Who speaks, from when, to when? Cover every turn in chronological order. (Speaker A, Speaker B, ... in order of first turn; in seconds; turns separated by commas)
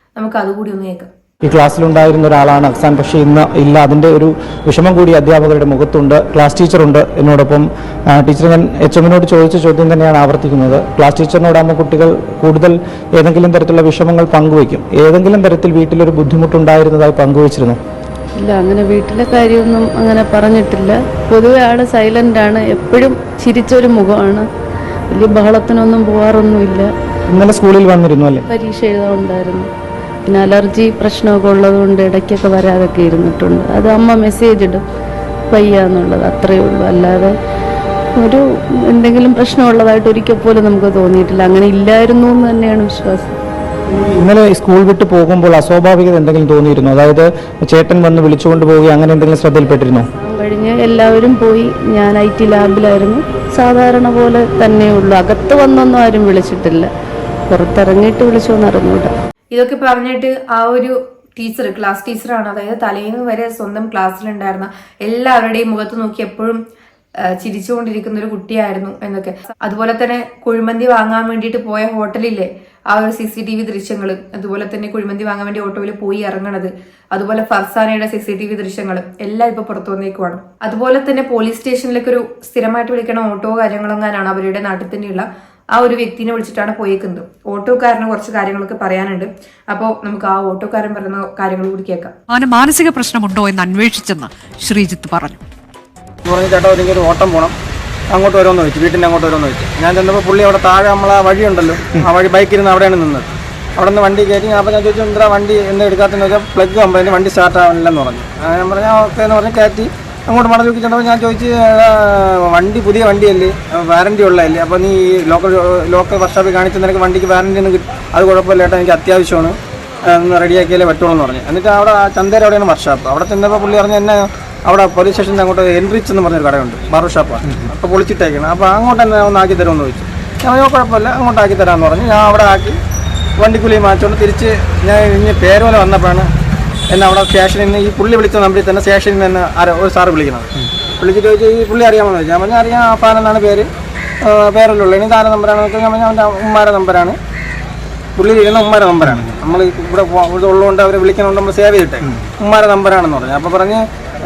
Speaker A: 0.2-1.1, Speaker B: 1.4-17.8, Speaker C: 18.4-24.5, Speaker C: 25.1-26.9, Speaker B: 27.3-28.5, Speaker C: 28.5-29.7, Speaker C: 30.3-34.8, Speaker C: 35.5-37.3, Speaker C: 38.2-43.4, Speaker B: 44.0-50.1, Speaker C: 50.2-56.9, Speaker C: 57.5-59.1, Speaker A: 59.5-66.6, Speaker A: 67.4-92.1, Speaker D: 92.3-95.4, Speaker E: 96.3-97.5, Speaker E: 98.1-119.5, Speaker E: 120.1-132.8, Speaker E: 133.4-136.3, Speaker E: 136.9-140.5, Speaker E: 141.0-143.7, Speaker E: 144.2-147.2, Speaker E: 148.2-153.8